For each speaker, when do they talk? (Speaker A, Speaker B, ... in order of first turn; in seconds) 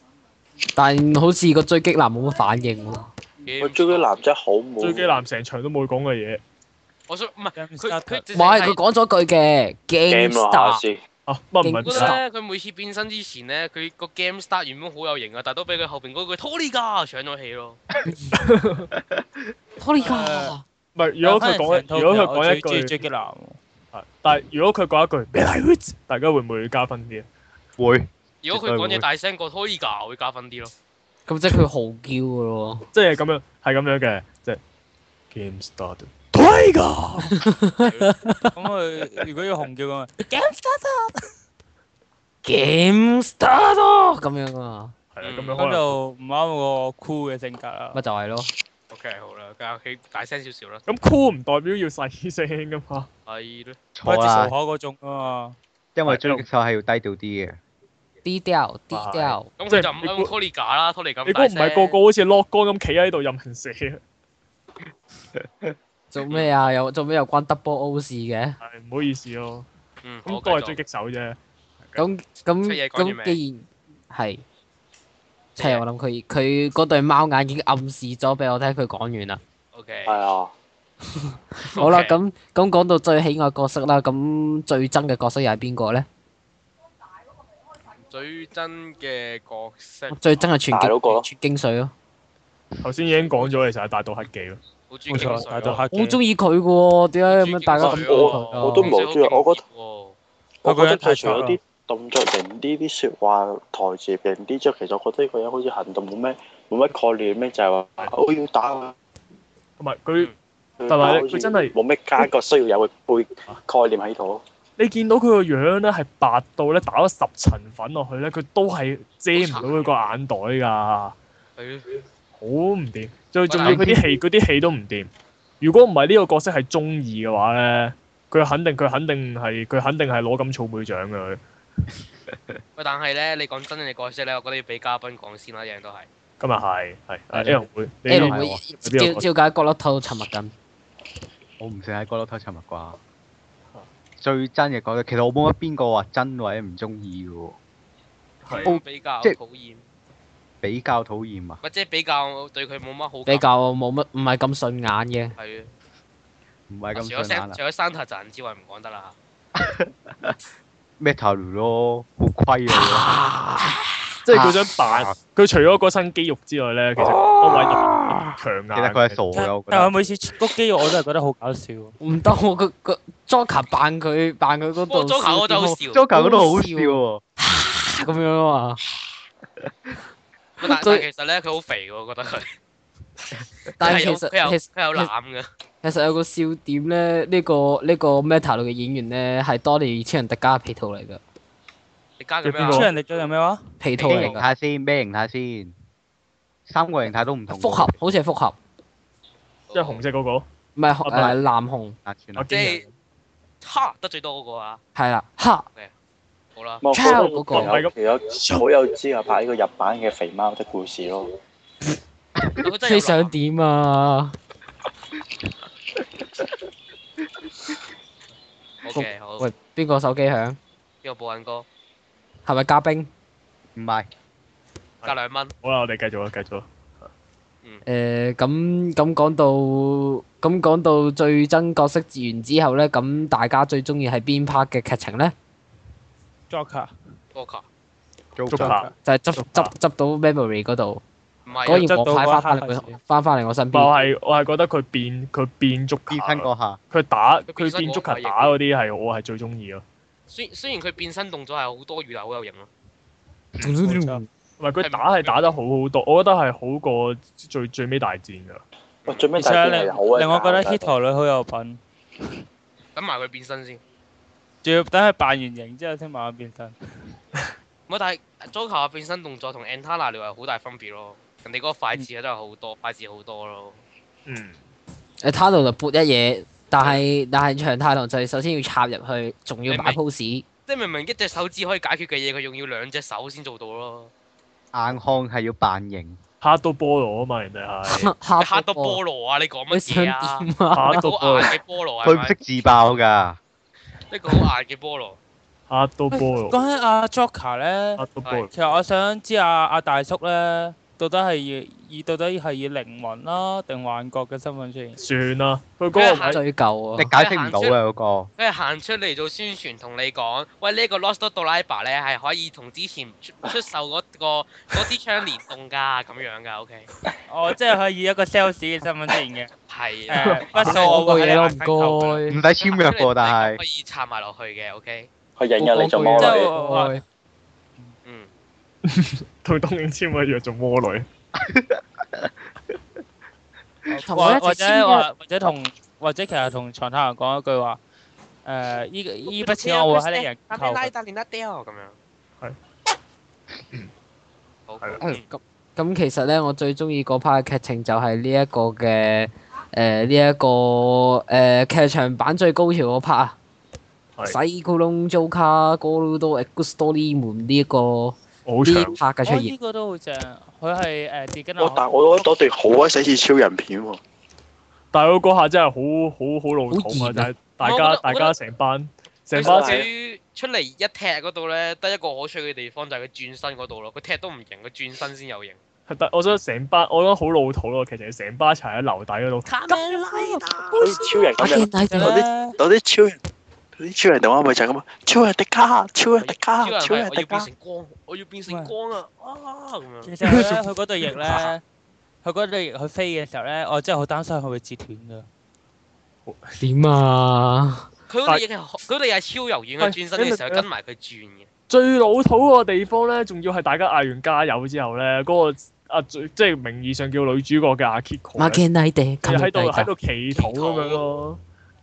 Speaker A: 0.8-3.0, 8.3-10.8, 11.6-12.2, 18.1-18.4, 19.8-20.6, 31.3-32.9, 37.3-38.5, 42.4-44.9, 47.9-48.5, 58.2-59.5, 66.1-68.6, 72.0-74.4, 75.6-79.4, 81.2-86.1, 90.1-91.9, 95.9-98.9, 138.1-140.5, 153.3-155.3, 162.7-164.5, 167.0-168.4, 172.0-178.8, 180.6-181.1, 183.8-185.1, 185.8-191.2, 193.8-194.5, 197.5-198.6, 200.8-202.0, 205.0-205.7, 206.9-207.8, 212.8-214.4, 218.9-220.6, 222.5-223.1, 227.9-235.3, 239.0-241.0, 241.7-243.9, 253.6-254.2, 275.2-280.4, 287.9-289.0, 289.7-291.0, 306.3-307.1, 320.6-322.4, 325.6-327.0, 334.1-335.1, 345.0-353.4, 354.2-359.5, 366.7-367.3, 381.4-382.2, 396.6-397.9, 408.4-409.9
Speaker B: 3.4-4.1, 7.1-8.8, 11.8-17.8, 28.4-30.7, 37.8-38.1, 45.2-45.6, 48.9-50.9, 53.3-53.8, 59.6-62.0, 70.0-70.8, 72.6-73.4, 75.6-75.8, 79.7-80.2, 81.7-82.2, 88.1-90.5, 94.9-95.8, 97.3-100.2, 119.3-120.1, 121.6-121.9, 123.5-123.9, 132.8-136.1, 148.5-149.8, 151.6-153.5, 155.4-155.7, 156.9-159.2, 174.9-176.1, 180.6-182.6, 183.8-185.5, 192.2-193.0, 194.0-194.4, 199.7-200.0, 202.5-202.8, 203.6-204.8, 206.6-206.8, 212.6-213.3, 218.8-219.4, 221.0-221.7, 225.0-225.5, 237.3-237.7, 241.5-241.9, 247.5-248.6, 250.3-252.7, 254.8-255.5, 259.1-259.3, 263.0-263.8, 267.9-273.8, 279.7-280.0, 280.7-284.1, 288.4-292.4, 294.1-295.2, 298.2-298.8, 305.9-306.4, 307.1-307.8, 308.4-316.9, 319.7-320.9, 322.6-325.1, 328.1-328.3, 339.3-342.0, 344.7-345.2, 367.6-368.3, 369.4-375.6, 379.5-381.0, 386.2-390.5, 391.2-391.5, 398.1-401.5, 410.3-411.0
Speaker C: 3.6-5.2, 10.1-11.0, 80.1-80.5, 90.7-91.3, 97.8-99.6, 100.6-109.0, 110.8-114.4, 206.8-211.3, 259.1-260.9, 325.4-326.5, 361.6-364.0, 369.4-369.9, 380.7-383.2, 383.8-387.5
Speaker D: 4.8-6.4, 11.3-12.2, 18.4-18.9, 21.0-22.9, 23.9-27.3, 32.9-34.6, 35.3-37.4, 45.1-46.0, 50.9-53.1, 56.1-56.4, 58.9-60.3, 61.3-64.0, 68.6-69.7, 70.3-71.4, 92.8-94.6, 95.1-95.8, 109.8-110.3, 110.9-111.8, 114.8-121.2, 122.4-125.1, 125.6-131.4, 136.4-139.2, 148.5-148.7, 164.2-169.2, 192.4-192.9, 199.7-200.4, 201.1-201.4, 202.4-202.9, 207.1-208.6, 225.0-227.1, 238.5-239.7, 243.7-249.8, 253.6-253.9, 254.6-258.6, 274.3-274.6, 286.4-288.1, 290.7-291.6, 295.7-296.6, 298.0-298.5, 305.0-306.4, 320.2-320.8, 328.9-331.1, 358.5-359.0, 364.9-369.9, 375.9-379.5, 396.3-396.6, 399.8-400.7, 401.7-408.6, 409.2-411.4
Speaker E: 7.6-8.3, 20.0-20.6, 21.2-23.6, 38.5-41.3, 45.5-48.0, 54.0-55.6, 95.1-96.2, 100.7-101.6, 169.3-171.9, 192.6-193.7, 236.5-236.9, 238.6-238.9, 241.7-243.0, 253.9-254.2, 259.3-261.8, 264.6-266.8, 296.1-305.0, 317.3-319.5, 320.1-322.2, 326.1-327.0, 333.9-337.8, 338.4-340.9, 359.2-361.8, 381.9-382.6, 388.5-388.7, 390.0-391.6, 392.2-395.3
Speaker F: 19.0-19.2, 27.8-29.1, 54.0-54.5, 56.0-57.6, 65.4-65.7, 123.6-124.1, 138.1-138.6, 141.6-143.0, 144.2-147.6, 148.6-149.4, 150.6-151.6, 156.7-157.6, 159.6-160.4, 161.0-163.1, 164.4-165.2, 168.7-169.9, 175.9-177.2, 194.1-195.7, 196.7-197.9, 202.1-202.5, 223.8-224.1, 238.4-238.8, 246.1-246.8, 284.7-286.2, 292.0-293.4, 307.0-308.3, 322.3-323.6, 331.4-332.3